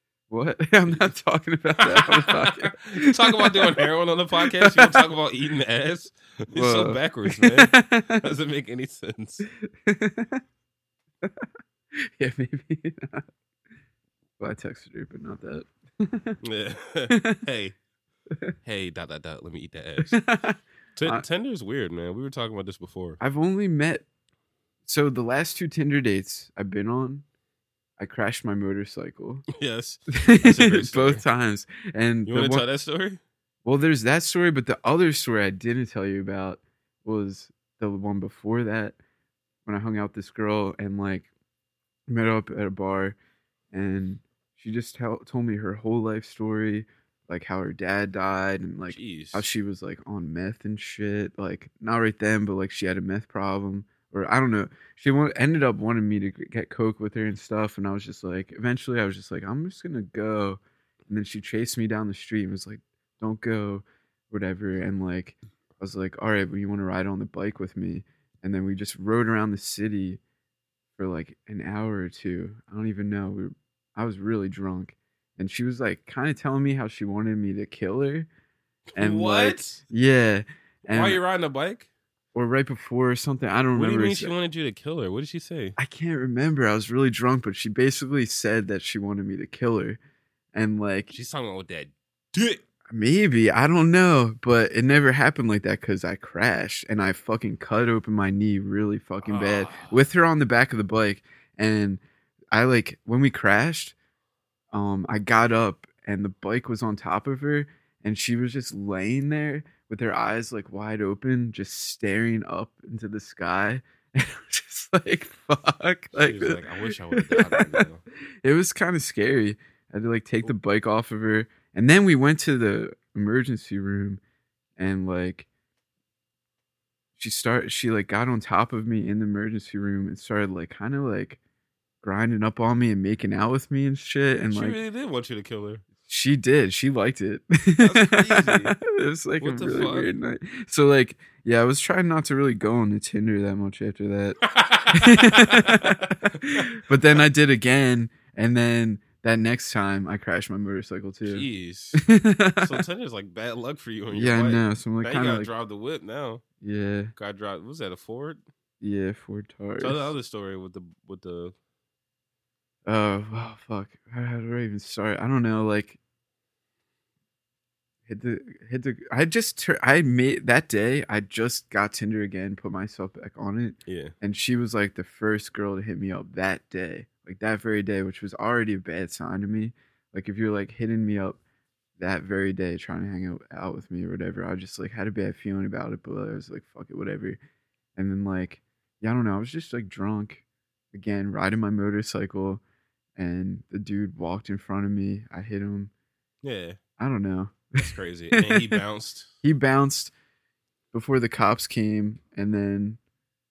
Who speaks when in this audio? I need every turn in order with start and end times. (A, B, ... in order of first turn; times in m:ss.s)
0:00.3-0:03.8 A
0:00.8-0:01.1 B
0:01.8-0:09.4 B
0:04.4-0:05.0 A
0:06.5-0:08.2 A
0:09.4-0:10.4 A
0:11.2-0:13.2 A
0:14.4-0:16.4 A
0:16.4-0:17.8 B
0:17.1-0:17.4 A
0:18.6-0:20.2 B
0:20.0-0:21.2 A
0:21.0-0:23.2 B
0:23.2-0:24.0 A
0:24.8-0:27.2 A
0:28.0-0:29.5 A
0:29.5-0:31.2 B
0:30.1-0:32.6 A
0:32.2-0:33.2 B
0:33.6-0:39.0 A
0:39.6-0:41.3 A
0:42.1-0:43.2 A
0:43.7-1:10.2 A
0:48.9-0:49.5 B
1:11.0-1:18.3 A
1:18.9-1:19.8 B
1:19.0-1:21.2 A
1:20.8-1:21.9 B
1:22.3-1:24.3 A
1:23.7-1:25.8 B
1:25.8-1:30.0 A
1:30.5-1:31.1 A
1:31.1-1:32.6 B
1:32.9-1:42.0 A
1:39.2-1:40.0 B
1:42.5-1:43.9 A
1:44.7-1:57.9 A
1:56.1-1:58.0 B
1:58.4-2:04.2 A
2:04.8-2:05.5 A
2:07.2-2:11.4 A
2:12.0-2:14.8 A
2:14.5-2:15.8 B
2:16.0-2:32.8 A
2:17.8-2:18.7 B
2:19.4-2:20.1 B
2:24.4-2:26.7 B
2:31.2-2:32.0 B
2:32.6-2:36.4 B
2:34.1-2:35.5 A
2:36.6-2:37.1 A
2:37.2-2:38.4 B
2:38.8-2:40.1 A
2:39.8-2:41.5 B
2:42.8-2:46.0 A
2:48.0-3:01.4 A
2:53.8-2:54.1 B
3:02.0-3:07.4 A
3:08.0-3:12.6 A
3:13.2-3:15.9 A
3:16.4-3:16.8 B
3:17.0-3:18.8 A
3:17.8-3:19.3 B
3:19.4-3:20.1 A
3:20.9-3:23.0 A